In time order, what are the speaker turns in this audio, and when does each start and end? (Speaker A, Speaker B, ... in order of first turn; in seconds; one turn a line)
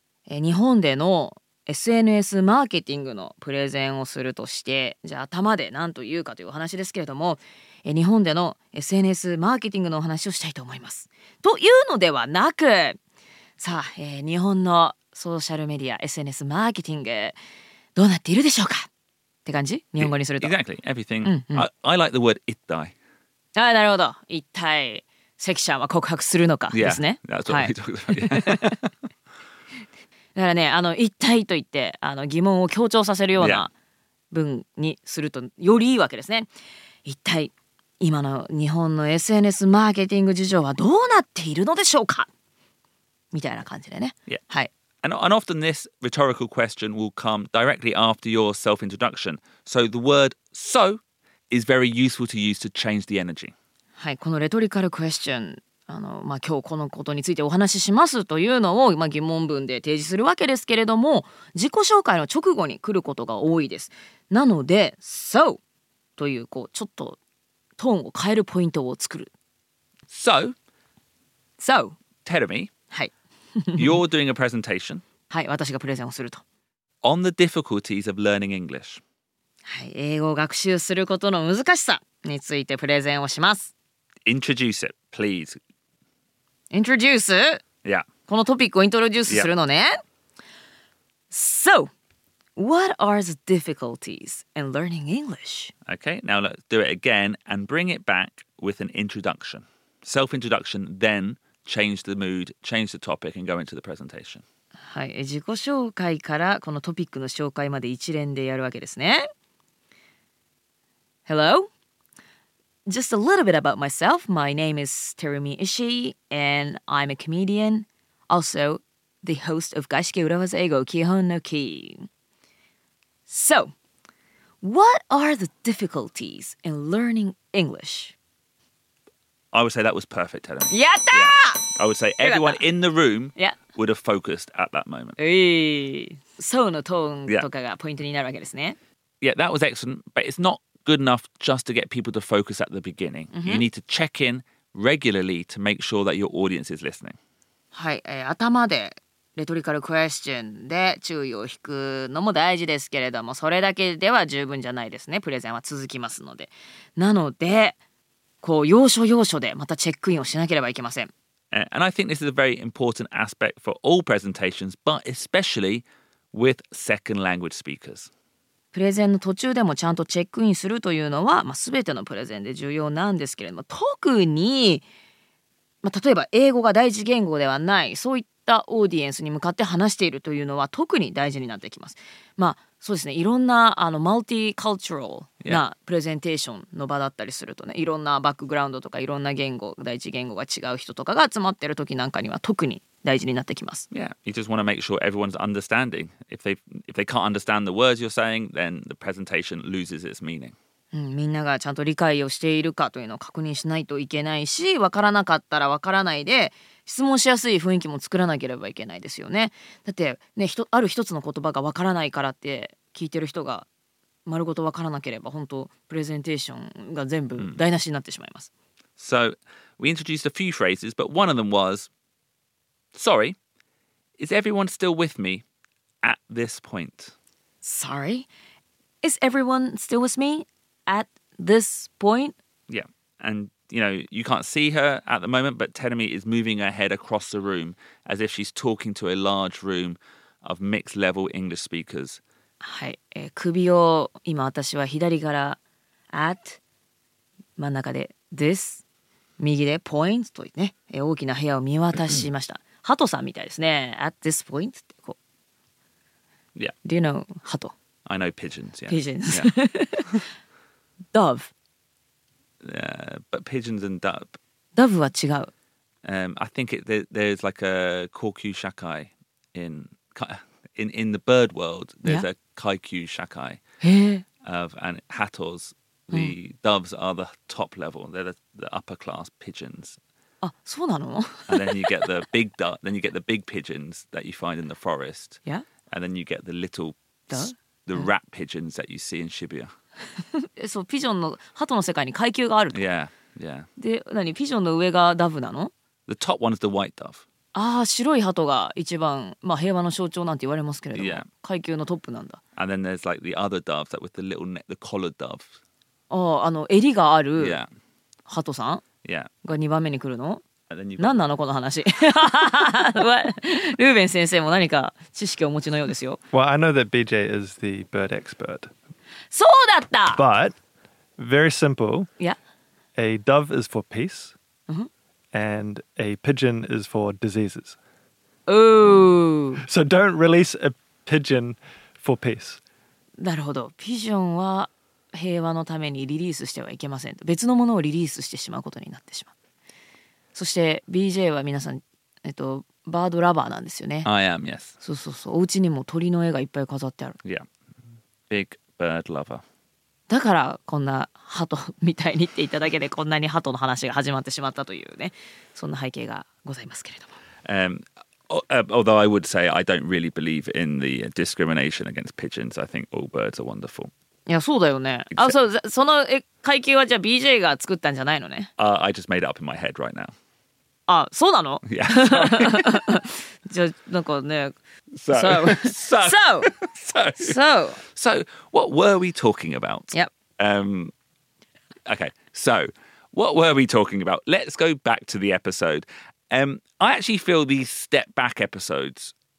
Speaker A: 0.3-13.0
Speaker A: 13.6-17.4
Speaker A: 17.9-18.9
Speaker A: 19.4-20.6
Speaker B: 20.0-22.9
Speaker A: 21.2-21.6
Speaker A: 23.6-28.8
Speaker B: 26.7-28.9
Speaker A: 30.4-33.7
Speaker B: 33.4-33.6
Speaker A: 34.3-36.5
Speaker A: 37.0-42.3
Speaker A: 43.3-44.7
Speaker B: 45.0-53.5
Speaker A: 54.0-65.6
Speaker A: 66.2-67.2
Speaker A: 67.8-69.3
Speaker B: 70.1-70.5
Speaker A: 71.6-72.0
Speaker B: 72.2-72.7
Speaker A: 72.9-74.0
Speaker B: 73.8-75.0
Speaker A: 75.3-76.4
Speaker B: 77.0-79.0
Speaker A: 79.6-83.7
Speaker B: 84.3-85.6
Speaker A: 86.7-87.6
Speaker A: 88.3-90.0
Speaker A: 91.3-91.9
Speaker A: 92.6-95.7
Speaker B: 95.9-104.4
Speaker A: 104.8-109.3
Speaker A: 111.3-111.7
Speaker A: 112.9-122.1
Speaker A: 123.3-123.7
Speaker A: 124.6-128.1
Speaker B: 129.5-135.2
Speaker A: 130.7-131.6
Speaker A: 132.2-132.6
Speaker A: 135.2-138.8
Speaker B: 139.2-147.2
Speaker A: 143.3-143.6
Speaker A: 147.7-157.8
Speaker A: 158.4-161.1
Speaker B: 161.5-168.1
Speaker A: 168.7-174.8
Speaker A: 175.8-193.9
Speaker B: 193.9-200.6
Speaker A: 200.9-213.7
Speaker A: 214.3-218.5
Speaker B: 219.0-221.9
Speaker B: 222.9-223.4
Speaker B: 224.2-225.4
Speaker B: 226.0-227.1
Speaker A: 227.6-228.3
Speaker A: 229.0-232.4
Speaker B: 232.7-242.2
Speaker A: 242.6-245.6
Speaker A: 246.1-246.6
Speaker A: 247.6-248.8
Speaker A: 249.4-255.2
Speaker A: 256.8-257.7
Speaker B: 258.1-259.5
Speaker A: 258.9-260.3
Speaker A: 261.1-261.5
Speaker B: 262.6-264.4
Speaker A: 264.8-265.5
Speaker B: 266.1-273.6
Speaker A: 273.8-274.2
Speaker B: 274.4-280.0
Speaker A: 280.4-282.1
Speaker B: 281.5-289.7
Speaker A: 287.3-288.1
Speaker A: 290.3-292.8
Speaker B: 292.7-293.7
Speaker A: 293.8-295.7
Speaker B: 296.1-297.2
Speaker A: 297.5-302.4
Speaker B: 300.9-301.3
Speaker B: 302.6-305.6
Speaker A: 306.1-307.6
Speaker B: 307.4-307.7
Speaker A: 308.3-308.8
Speaker B: 309.0-309.3
Speaker A: 309.4-310.4
Speaker B: 310.7-311.2
Speaker A: 311.0-316.2
Speaker C: 316.3-318.7
Speaker A: 319.3-320.2
Speaker C: 320.1-320.6
Speaker C: 321.2-322.1
Speaker C: 323.0-324.4
Speaker C: 325.3-327.8
Speaker A: 328.5-329.6
Speaker C: 329.6-332.6
Speaker A: 333.2-339.3
Speaker A: 340.4-344.1
Speaker B: 344.1-344.8
Speaker A: 344.8-347.2
Speaker B: 348.3-349.4
Speaker A: 350.1-357.2
Speaker B: 357.4-363.9
Speaker A: 364.3-368.5
Speaker B: 368.6-370.1
Speaker A: 370.9-374.6
Speaker B: 371.6-372.9
Speaker B: 374.9-380.9
Speaker A: 375.1-376.5
Speaker A: 377.2-377.8
Speaker B: 381.9-389.1